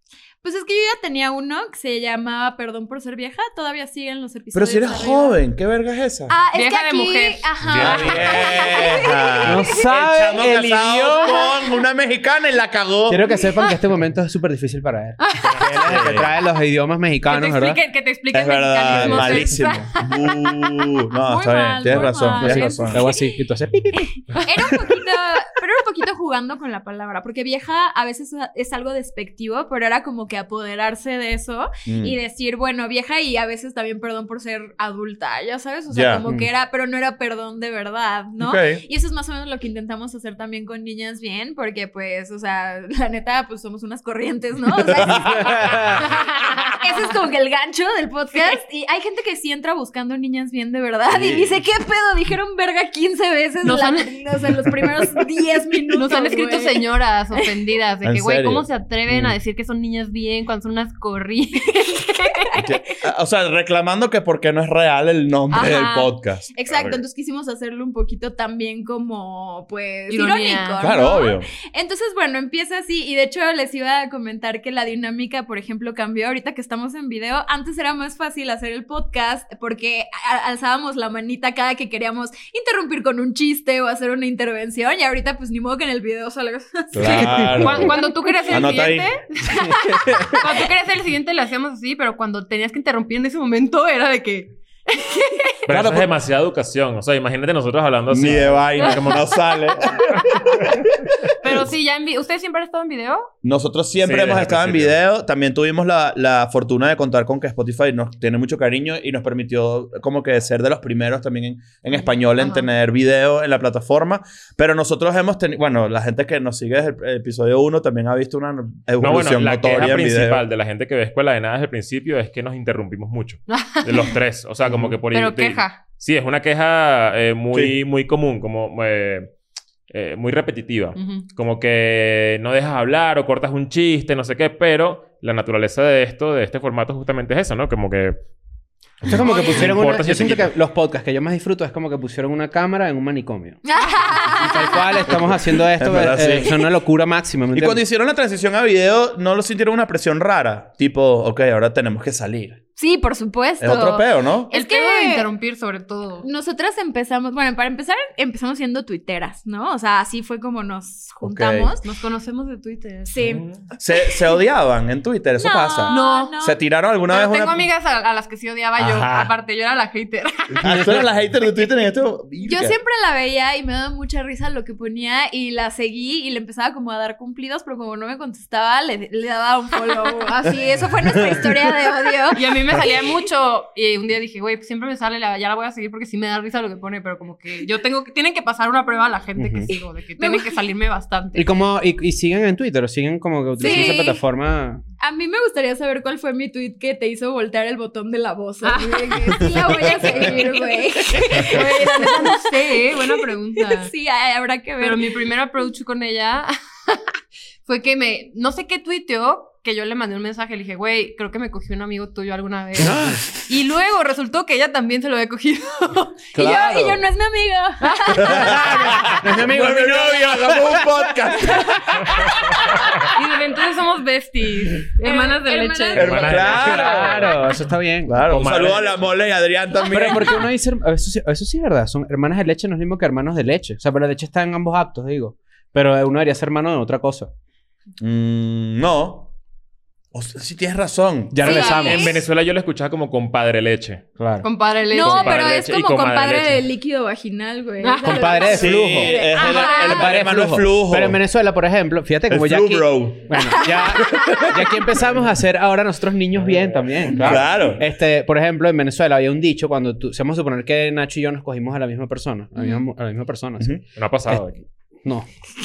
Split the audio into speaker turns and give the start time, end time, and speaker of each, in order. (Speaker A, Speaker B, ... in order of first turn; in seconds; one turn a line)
Speaker A: 0.4-5.4
Speaker B: 4.5-6.3
Speaker A: 6.3-9.8
Speaker C: 6.5-9.0
Speaker D: 7.6-8.3
Speaker B: 7.8-13.2
Speaker E: 9.4-11.5
Speaker E: 13.1-17.8
Speaker C: 15.2-15.9
Speaker B: 15.8-16.3
Speaker C: 17.3-20.6
Speaker B: 18.3-23.0
Speaker E: 18.9-19.5
Speaker A: 21.2-23.4
Speaker E: 22.4-24.7
Speaker A: 23.9-56.8
Speaker B: 31.9-32.2
Speaker B: 35.9-36.2
Speaker B: 38.4-38.8
Speaker B: 45.0-45.7
Speaker E: 45.2-46.0
Speaker C: 46.4-46.8
Speaker C: 48.3-48.6
Speaker B: 51.1-51.6
Speaker C: 53.6-54.2
Speaker C: 55.9-62.5
Speaker B: 58.0-58.6
Speaker A: 62.4-62.8
Speaker B: 62.6-67.0
Speaker C: 65.5-66.1
Speaker A: 65.5-88.8
Speaker C: 70.1-70.9
Speaker B: 70.8-71.5
Speaker B: 86.9-87.9
Speaker C: 87.0-95.6
Speaker E: 87.1-87.8
Speaker B: 88.5-89.1
Speaker A: 89.5-90.3
Speaker E: 89.7-90.4
Speaker D: 95.7-99.3
Speaker B: 95.7-96.1
Speaker B: 98.1-101.6
Speaker C: 99.8-100.4
Speaker C: 101.4-103.3
Speaker B: 103.4-120.4
Speaker D: 104.0-105.0
Speaker C: 111.9-112.7
Speaker D: 119.0-129.3
Speaker C: 123.5-124.1
Speaker B: 124.7-124.9
Speaker C: 125.1-125.8
Speaker D: 129.9-138.2
Speaker C: 131.0-131.3
Speaker D: 139.0-140.5
Speaker E: 139.1-143.6
Speaker C: 139.2-139.7
Speaker A: 143.7-145.5
Speaker E: 144.2-147.8
Speaker B: 145.1-146.5
Speaker B: 147.5-152.6
Speaker A: 152.8-155.3
Speaker B: 153.6-154.5
Speaker C: 154.5-156.3
Speaker A: 156.2-161.9
Speaker B: 161.2-161.7
Speaker C: 161.8-163.2
Speaker A: 163.1-163.5
Speaker D: 163.3-163.6
Speaker B: 163.8-167.7
Speaker A: 165.4-166.6
Speaker C: 165.9-166.3
Speaker C: 167.1-171.6
Speaker B: 168.8-169.3
Speaker B: 170.6-172.8
Speaker A: 172.4-182.8
Speaker C: 182.3-191.5
Speaker E: 189.4-189.7
Speaker A: 190.2-190.6
Speaker E: 191.3-194.8
Speaker A: 193.6-194.2
Speaker C: 193.6-194.0
Speaker A: 195.0-205.2
Speaker C: 198.6-200.4
Speaker B: 199.6-200.3
Speaker C: 201.2-203.9
Speaker C: 204.8-216.3
Speaker E: 212.8-213.3
Speaker B: 216.3-217.0
Speaker A: 216.3-218.4
Speaker C: 217.8-218.3
Speaker B: 218.2-222.3
Speaker E: 218.2-222.0
Speaker C: 223.1-226.4
Speaker A: 225.0-226.8
Speaker B: 226.0-227.5
Speaker D: 226.0-227.6
Speaker E: 226.4-228.2
Speaker B: 228.1-230.5
Speaker D: 228.2-229.1
Speaker E: 229.9-237.3
Speaker B: 238.0-239.3
Speaker B: 240.1-241.4
Speaker E: 241.3-242.1
Speaker A: 241.4-242.2
Speaker C: 241.4-242.0
Speaker D: 241.8-244.1
Speaker E: 244.2-244.5
Speaker C: 244.4-245.4
Speaker A: 244.9-250.0
Speaker D: 245.0-246.6
Speaker C: 247.8-248.6
Speaker E: 248.1-265.3
Speaker B: 248.5-251.2
Speaker C: 249.3-250.1
Speaker B: 252.3-253.3
Speaker A: 253.4-254.4
Speaker B: 253.9-255.2
Speaker B: 257.1-257.8
Speaker D: 264.0-264.6